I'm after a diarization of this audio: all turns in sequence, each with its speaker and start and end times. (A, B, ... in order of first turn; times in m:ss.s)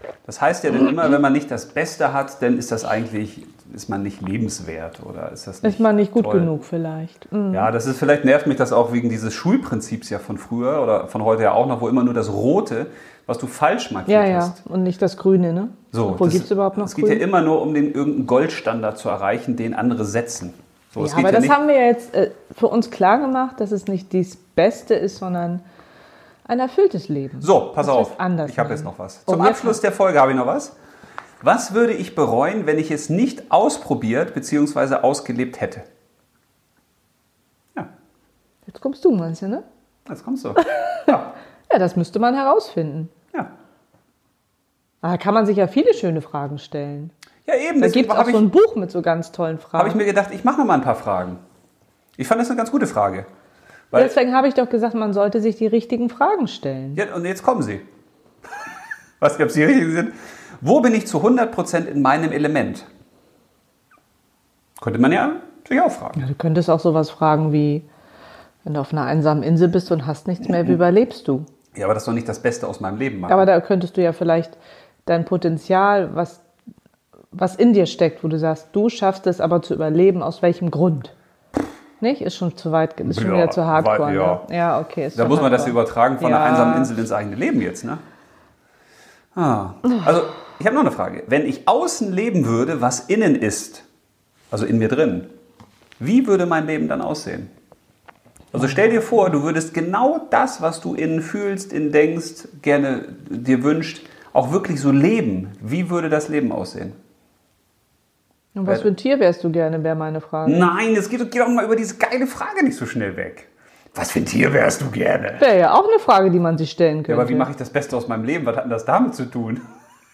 0:00.2-0:06.5 A
0:05.6-0:07.7 B
0:07.5-0:14.6 A
0:14.1-0:17.2 B
0:15.9-0:21.6 A
0:21.0-0:25.6 B
0:26.5-0:29.8 B
0:27.4-0:30.8 A
0:31.4-0:35.9 A
0:38.7-0:39.6 B
0:40.1-0:41.3 A
0:41.7-0:43.1 B
0:45.0-0:47.1 B
0:47.5-0:48.5 A
0:47.8-0:50.0 B
0:49.8-0:51.4 A
0:52.2-0:53.3 A
0:53.9-0:57.0 B
0:57.0-0:57.9 A
0:59.2-1:02.9 A
1:04.8-1:06.2 A
1:06.2-1:07.9 B
1:08.6-1:11.5 B
1:10.4-1:10.8 A
1:11.7-1:13.5 A
1:13.3-1:16.4 B
1:17.3-1:21.1 B
1:22.0-1:26.9 B
1:23.1-1:24.4 A
1:25.1-1:28.0 A
1:29.4-1:33.8 A
1:34.5-1:35.3 A
1:36.0-1:37.5 A
1:38.5-1:47.0 A
1:48.6-1:50.7 B
1:50.4-1:55.5 A
1:55.4-1:57.5 B
1:57.1-1:59.6 A